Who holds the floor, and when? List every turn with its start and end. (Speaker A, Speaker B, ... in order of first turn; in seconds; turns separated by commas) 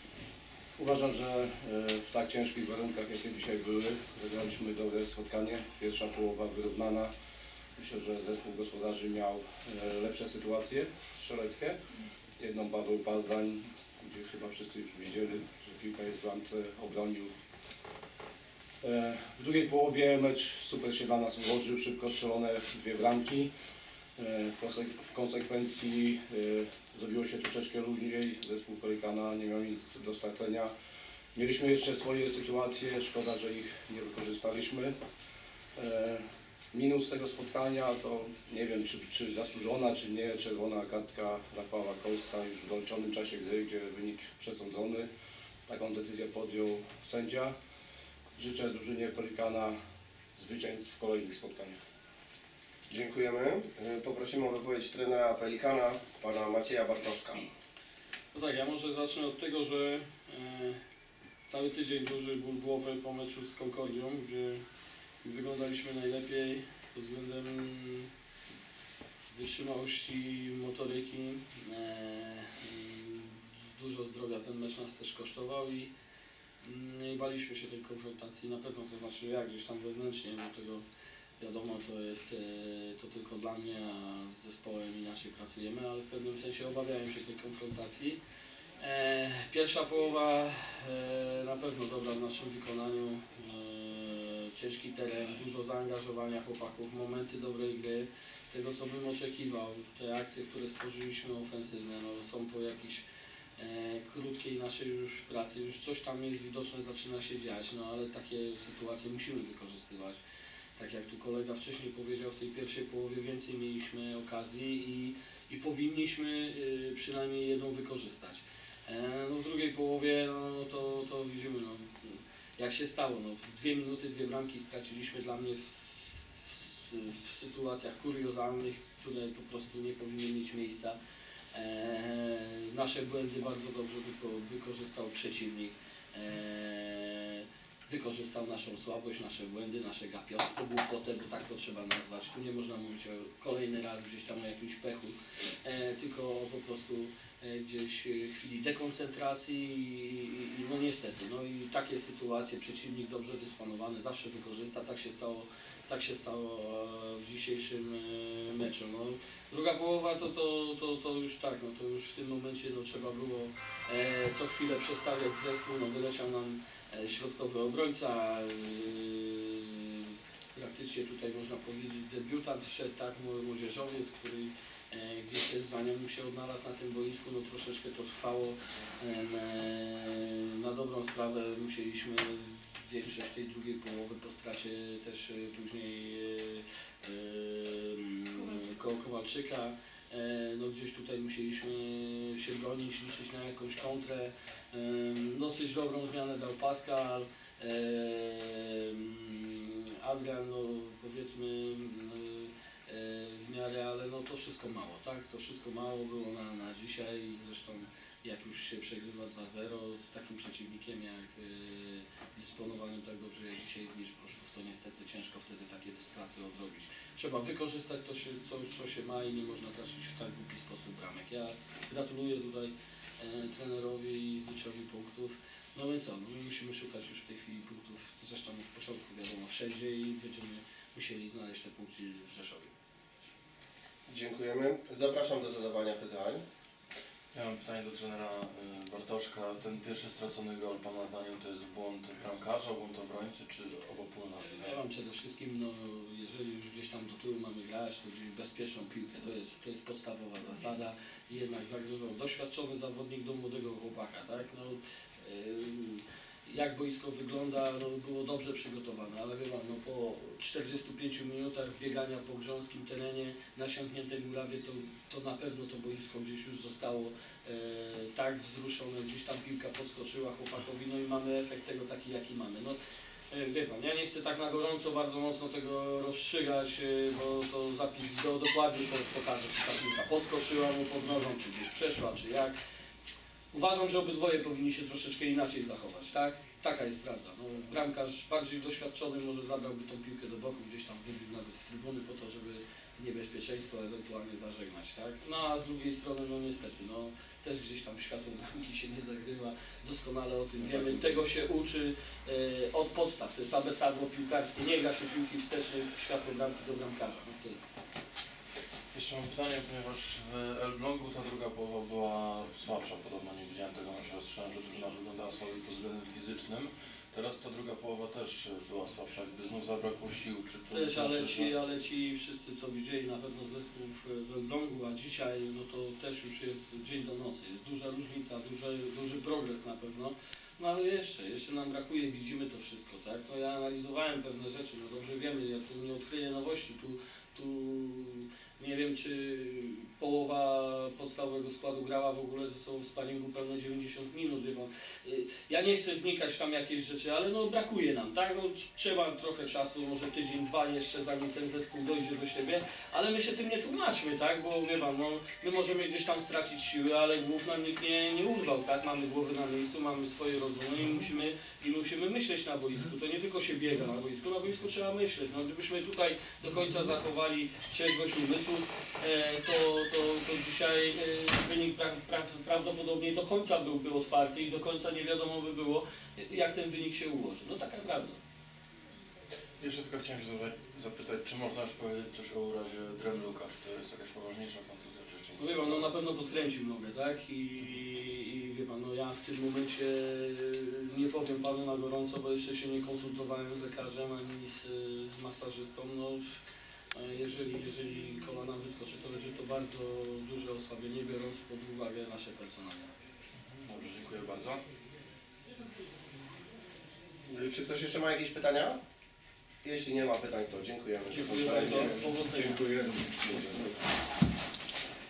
Speaker A: 0.8-7.1, Speaker A: 7.8-11.8, Speaker A: 12.4-17.3, Speaker A: 18.8-23.5, Speaker A: 24.2-30.7, Speaker A: 31.3-34.9, Speaker A: 35.8-45.1, Speaker A: 45.7-47.5, Speaker A: 48.4-49.8, Speaker A: 50.4-51.8, Speaker B: 52.9-57.5, Speaker C: 58.3-60.8, Speaker C: 61.5-64.6, Speaker C: 65.2-68.1, Speaker C: 69.3-75.9, Speaker C: 76.6-80.8, Speaker C: 81.4-88.2, Speaker C: 88.8-103.0, Speaker C: 103.6-110.2, Speaker C: 110.8-131.0, Speaker C: 131.5-232.7, Speaker B: 234.1-236.4, Speaker D: 237.3-244.7, Speaker C: 244.6-272.8, Speaker C: 273.3-282.6, Speaker C: 283.5-307.6, Speaker D: 300.6-301.2, Speaker D: 308.9-321.5, Speaker C: 320.7-378.2, Speaker D: 379.6-386.0, Speaker C: 385.4-396.2, Speaker C: 396.9-402.9, Speaker D: 403.6-404.6, Speaker B: 407.3-408.8, Speaker B: 409.6-412.0, Speaker C: 411.1-412.6, Speaker A: 411.6-413.7, Speaker C: 413.4-413.7